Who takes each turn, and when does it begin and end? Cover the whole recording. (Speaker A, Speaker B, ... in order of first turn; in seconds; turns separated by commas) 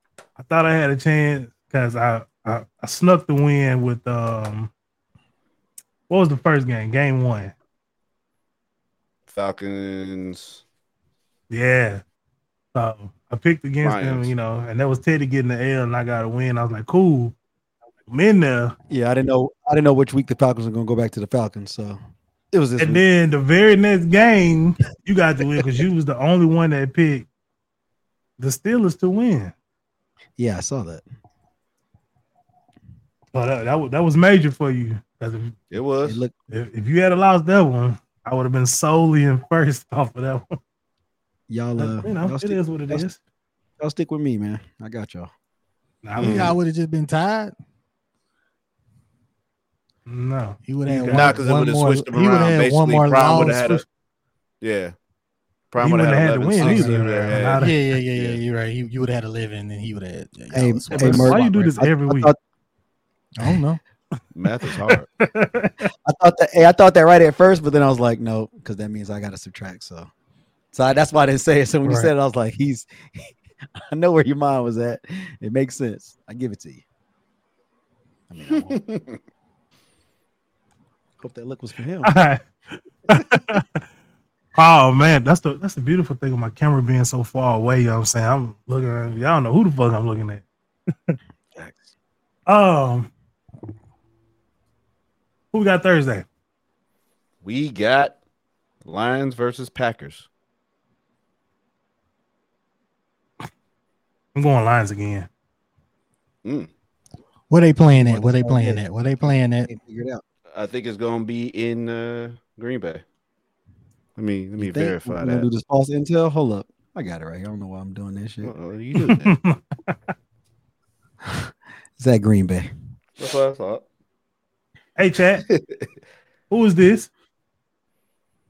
Speaker A: 0.4-4.7, Speaker A: 6.1-7.5, Speaker B: 9.3-10.6, Speaker A: 11.5-12.0, Speaker A: 12.7-17.3, Speaker B: 13.8-14.3, Speaker A: 18.1-18.7, Speaker C: 18.9-22.0, Speaker C: 22.5-23.0, Speaker A: 22.8-27.3, Speaker A: 28.4-29.5, Speaker C: 30.4-31.0, Speaker A: 33.3-35.6, Speaker B: 35.7-36.2, Speaker C: 36.0-36.3, Speaker A: 36.5-40.5, Speaker C: 41.5-43.0, Speaker A: 41.8-43.2, Speaker C: 43.8-45.3, Speaker A: 46.0-46.5, Speaker B: 46.2-46.5, Speaker D: 46.2-47.5, Speaker A: 50.1-51.4, Speaker D: 50.6-53.8, Speaker B: 51.1-53.8, Speaker B: 54.6-54.9, Speaker B: 55.7-58.4, Speaker A: 55.8-57.8, Speaker D: 56.6-57.0, Speaker D: 57.5-61.7, Speaker C: 60.5-62.4, Speaker A: 60.9-62.3, Speaker D: 63.4-63.8, Speaker B: 64.3-65.1, Speaker A: 65.2-65.9, Speaker C: 66.0-70.1, Speaker C: 70.7-76.8, Speaker A: 71.8-72.1, Speaker C: 78.3-78.8, Speaker B: 78.6-79.2, Speaker C: 81.2-82.1, Speaker A: 82.0-82.4, Speaker A: 83.1-83.8, Speaker A: 84.5-90.4, Speaker C: 91.5-91.9, Speaker A: 92.5-93.1, Speaker A: 95.5-96.2, Speaker B: 97.4-98.2, Speaker B: 98.8-100.2, Speaker A: 104.3-105.3, Speaker B: 106.4-106.7, Speaker D: 107.5-109.7, Speaker C: 107.9-110.2, Speaker B: 110.5-113.0, Speaker B: 114.2-115.5, Speaker C: 114.6-118.5, Speaker B: 118.4-119.3, Speaker A: 119.0-119.9, Speaker C: 122.0-122.7, Speaker B: 123.2-123.8, Speaker A: 125.0-125.4, Speaker B: 125.5-125.8, Speaker A: 126.5-127.1